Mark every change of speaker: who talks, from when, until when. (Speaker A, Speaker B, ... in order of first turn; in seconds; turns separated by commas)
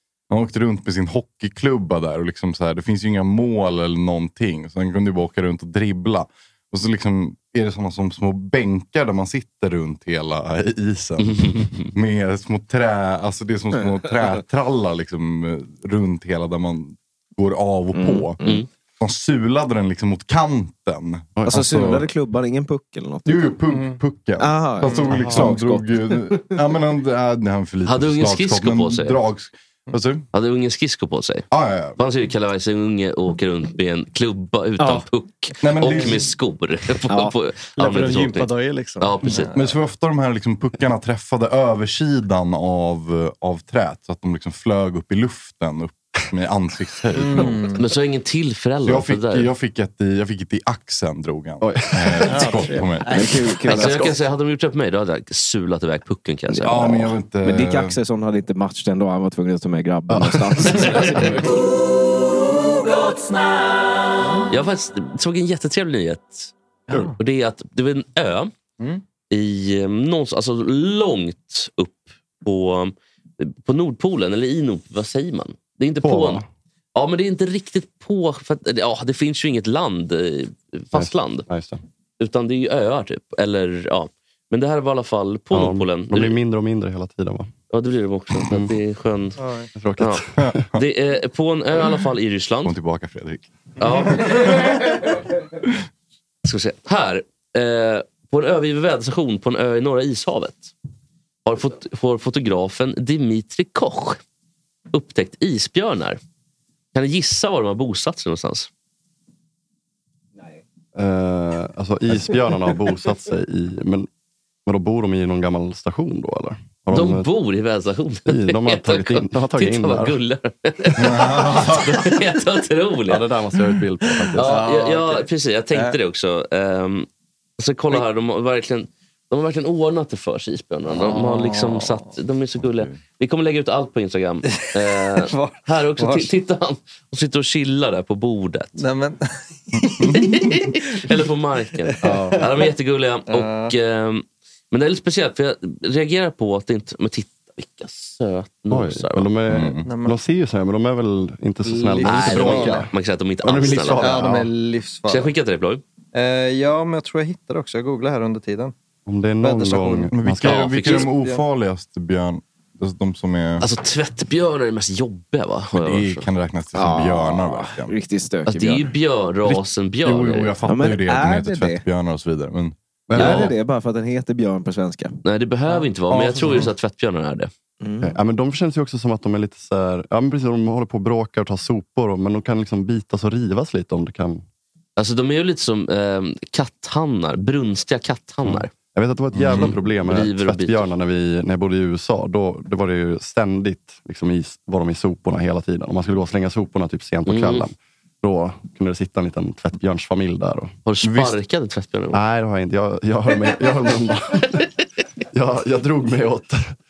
Speaker A: 0.3-18.4, Speaker B: 11.2-11.9, Speaker C: 17.9-18.6, Speaker A: 19.0-22.1, Speaker D: 21.4-21.6, Speaker C: 21.5-23.5, Speaker A: 23.2-30.3, Speaker E: 23.7-24.0, Speaker C: 24.4-26.6, Speaker E: 24.8-25.2, Speaker B: 27.9-29.2, Speaker B: 30.3-39.5, Speaker A: 31.5-32.0, Speaker C: 34.8-35.0, Speaker A: 35.6-36.2, Speaker E: 35.8-36.2, Speaker E: 37.8-39.8, Speaker A: 39.5-47.7, Speaker E: 47.1-47.8, Speaker B: 47.7-49.5, Speaker A: 48.8-53.1, Speaker D: 51.6-52.6, Speaker E: 52.2-53.4, Speaker C: 53.1-54.2, Speaker B: 53.6-57.0, Speaker D: 53.8-54.1, Speaker C: 56.5-61.5, Speaker A: 56.6-58.0, Speaker D: 60.1-60.9, Speaker B: 64.5-66.5, Speaker E: 66.9-67.2, Speaker B: 67.2-68.5, Speaker B: 69.3-76.4, Speaker D: 76.0-76.5, Speaker B: 76.9-81.5, Speaker D: 80.9-81.8, Speaker B: 82.2-86.3, Speaker D: 85.5-87.5, Speaker B: 87.7-89.4, Speaker D: 88.5-88.7, Speaker E: 89.4-89.7, Speaker D: 89.8-90.6, Speaker B: 90.0-92.7, Speaker A: 92.6-93.5, Speaker B: 93.8-94.8, Speaker A: 94.1-94.8, Speaker B: 96.4-100.7, Speaker B: 101.4-104.2, Speaker B: 104.9-106.2, Speaker B: 106.9-108.7, Speaker D: 110.9-114.1, Speaker D: 114.7-117.3, Speaker B: 116.9-123.2, Speaker D: 118.3-120.2, Speaker A: 121.0-122.0, Speaker D: 123.1-124.6, Speaker E: 124.3-126.0, Speaker B: 124.3-127.1, Speaker B: 127.6-138.8, Speaker E: 130.9-132.2, Speaker E: 134.4-136.3, Speaker E: 138.8-141.2, Speaker B: 140.2-149.3, Speaker E: 141.8-142.7, Speaker D: 142.0-142.4, Speaker E: 143.3-143.7, Speaker D: 148.7-152.9, Speaker A: 149.5-149.8, Speaker E: 149.8-150.2, Speaker E: 151.6-152.8, Speaker B: 152.0-154.3, Speaker D: 153.4-154.5, Speaker E: 154.0-155.3, Speaker B: 155.1-155.8, Speaker E: 156.1-158.7, Speaker D: 159.1-160.6, Speaker E: 159.4-160.1, Speaker A: 160.1-163.7, Speaker B: 160.4-161.1, Speaker E: 160.7-161.4, Speaker B: 163.6-166.3, Speaker A: 165.7-167.9, Speaker C: 166.7-168.9, Speaker B: 168.4-170.5, Speaker A: 169.5-172.8, Speaker C: 170.7-171.8, Speaker D: 173.1-173.5, Speaker C: 173.1-175.1, Speaker B: 173.1-173.5, Speaker B: 175.2-177.5, Speaker A: 176.1-176.6, Speaker E: 176.4-176.7, Speaker C: 177.8-178.1, Speaker D: 178.0-184.4, Speaker B: 185.0-188.7, Speaker D: 188.9-200.7, Speaker A: 189.3-189.8, Speaker B: 189.5-190.8, Speaker B: 197.3-197.7, Speaker B: 200.8-202.2, Speaker D: 202.1-204.6, Speaker D: 205.3-206.7